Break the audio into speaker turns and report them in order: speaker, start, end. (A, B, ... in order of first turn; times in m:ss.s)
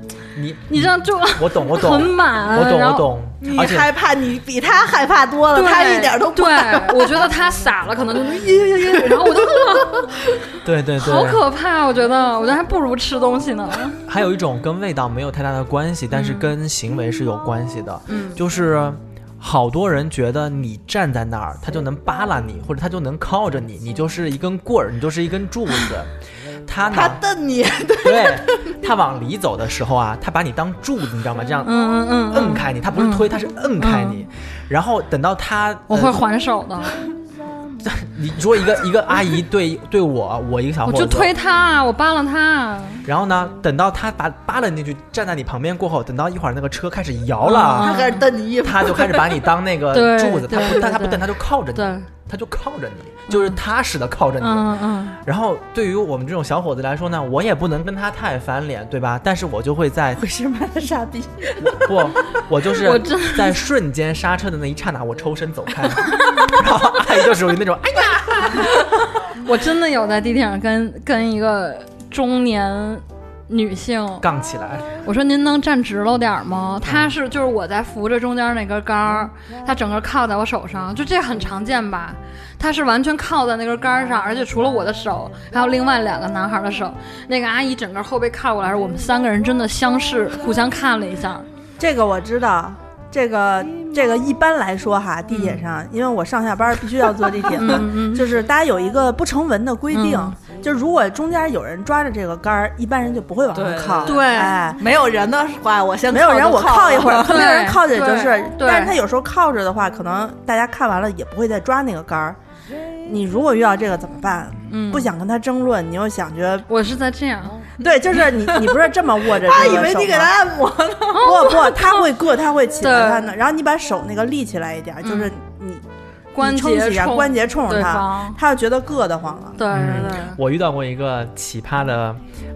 0:00.3-0:03.9 A
0:00.7-0:03.1 B
0:03.4-0:07.3 C
0:05.5-0:10.1 B
0:08.8-0:10.0 C
0:10.6-0:11.4 A
0:11.0-0:14.0 B
0:14.0-0:27.2 A
0:16.1-0:16.5 B
0:18.1-0:18.4 B
0:26.9-0:28.8 C
0:28.0-0:36.2 A
0:31.6-0:34.2 B
0:35.9-0:37.0 B
0:37.8-0:41.3 A
0:40.8-0:43.0 B
0:43.0-0:48.0 A
0:47.4-0:48.3 B
0:47.8-0:49.5 C
0:48.6-1:00.2 A
0:49.9-0:52.1 B
0:53.3-0:53.6 B
0:54.4-0:55.2 B
1:00.2-1:02.1 D
1:01.6-1:08.8 A
1:02.7-1:03.6 B
1:09.4-1:14.3 B
1:14.2-1:15.0 A
1:15.0-1:31.5 B
1:16.8-1:17.1 A
1:31.8-1:44.8 D
1:35.3-1:35.6 B
1:37.6-1:38.3 B
1:39.9-1:40.4 B
1:43.5-1:47.4 C
1:44.1-1:44.6 B
1:46.1-1:52.4 D
1:47.2-1:49.0 B
1:53.1-1:56.7 D
1:54.7-1:55.1 B
1:56.7-1:57.7 B
1:57.8-2:00.4 D
1:58.2-1:58.8 C
1:59.4-2:01.5 C
2:01.1-2:02.0 B
2:01.2-2:05.8 D
2:02.8-2:03.3 B
2:05.0-2:05.3 B
2:06.3-2:08.4 B
2:06.4-2:09.6 D
2:09.6-2:10.4 B
2:09.7-2:12.2 A